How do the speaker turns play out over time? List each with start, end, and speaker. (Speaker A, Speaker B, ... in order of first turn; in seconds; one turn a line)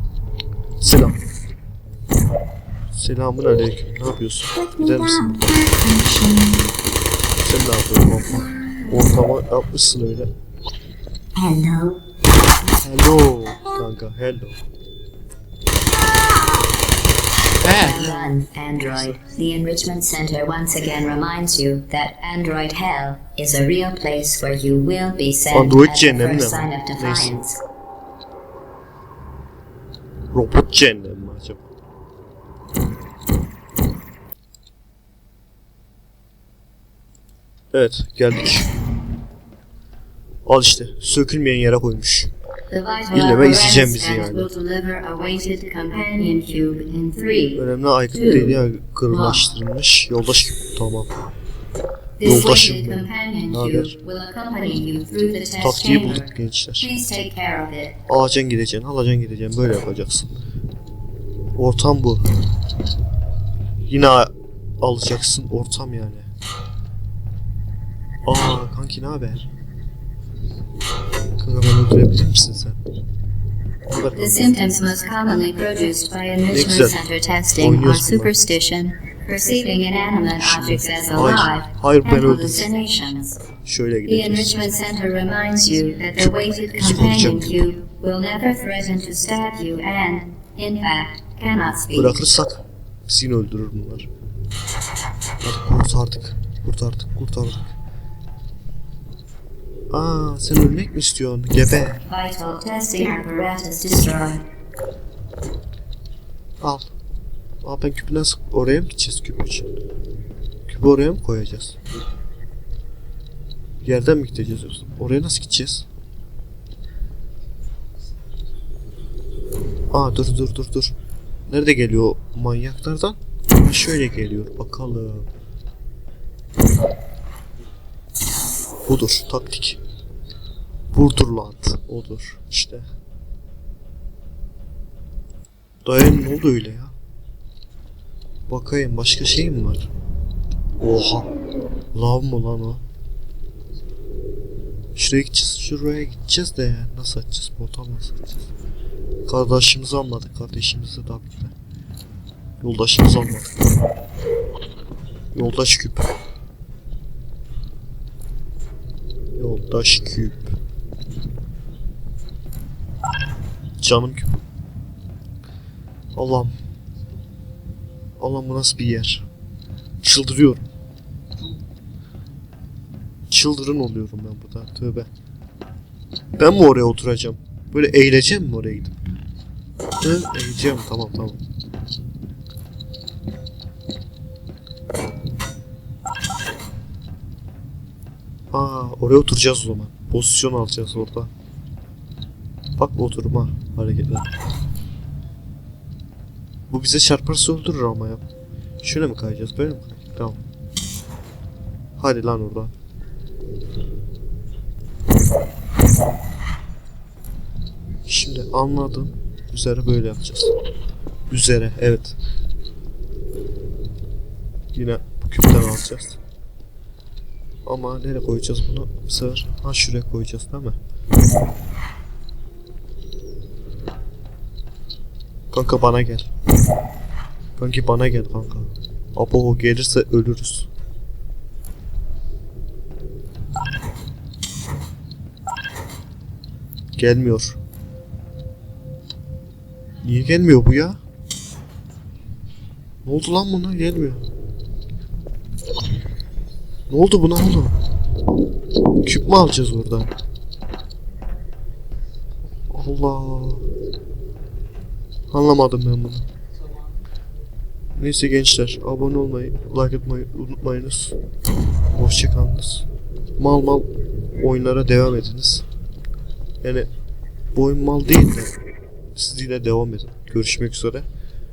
Speaker A: 0.8-1.2
Speaker A: 2.9-5.5
Speaker B: 4.7-6.7
Speaker A: 7.4-10.3
Speaker B: 11.3-12.0
Speaker A: 12.8-14.6
Speaker A: 17.6-18.2
Speaker C: 17.6-27.6
Speaker A: 25.5-27.3
Speaker A: 30.3-31.6
Speaker A: 37.7-38.7
Speaker A: 40.5-42.3
Speaker C: 42.7-47.6
Speaker A: 43.1-44.5
Speaker A: 47.5-51.1
Speaker C: 48.1-49.5
Speaker C: 52.2-58.0
Speaker A: 52.2-54.0
Speaker A: 55.6-56.9
Speaker A: 58.1-60.3
Speaker A: 61.5-62.3
Speaker A: 63.9-66.3
Speaker A: 68.2-69.5
Speaker A: 71.4-72.8
Speaker A: 73.9-74.8
Speaker C: 74.1-83.4
Speaker A: 76.5-77.0
Speaker A: 77.5-78.4
Speaker A: 80.3-82.7
Speaker A: 83.6-84.7
Speaker C: 84.0-92.2
Speaker A: 86.2-87.7
Speaker A: 91.9-94.1
Speaker A: 95.4-97.7
Speaker A: 99.9-102.0
Speaker C: 102.1-104.4
Speaker A: 106.6-106.9
Speaker A: 107.6-109.7
Speaker A: 110.7-111.8
Speaker A: 113.8-115.9
Speaker A: 119.9-120.9
Speaker A: 121.5-125.3
Speaker A: 128.8-129.8
Speaker A: 130.9-132.8
Speaker A: 135.8-136.9
Speaker A: 138.5-139.9
Speaker A: 140.8-141.3
Speaker A: 141.9-142.8
Speaker A: 144.9-148.5
Speaker A: 149.2-151.5
Speaker A: 152.6-153.6
Speaker A: 155.3-156.1
Speaker A: 159.4-160.5
Speaker A: 163.8-164.4
Speaker A: 166.1-166.5
Speaker A: 168.2-169.3
Speaker A: 170.0-170.6
Speaker A: 173.3-175.1
Speaker A: 176.4-178.9
Speaker A: 180.0-181.4
Speaker A: 188.5-191.3
Speaker A: 192.8-194.3
Speaker A: 196.7-198.2
Speaker A: 198.8-200.4
Speaker A: 202.0-202.7
Speaker A: 208.1-210.5
Speaker A: 211.3-212.2
Speaker A: 214.7-216.2
Speaker A: 217.6-220.8
Speaker A: 225.5-226.3
Speaker A: 227.6-230.7
Speaker A: 237.0-237.6
Speaker A: 240.0-241.0
Speaker A: 243.0-244.2
Speaker A: 246.9-247.8
Speaker A: 249.0-250.1
Speaker A: 252.7-253.7
Speaker A: 255.3-256.2
Speaker A: 257.9-261.1
Speaker A: 261.9-262.9
Speaker A: 263.4-265.6
Speaker A: 266.6-266.9
Speaker A: 267.5-268.5
Speaker A: 269.1-271.1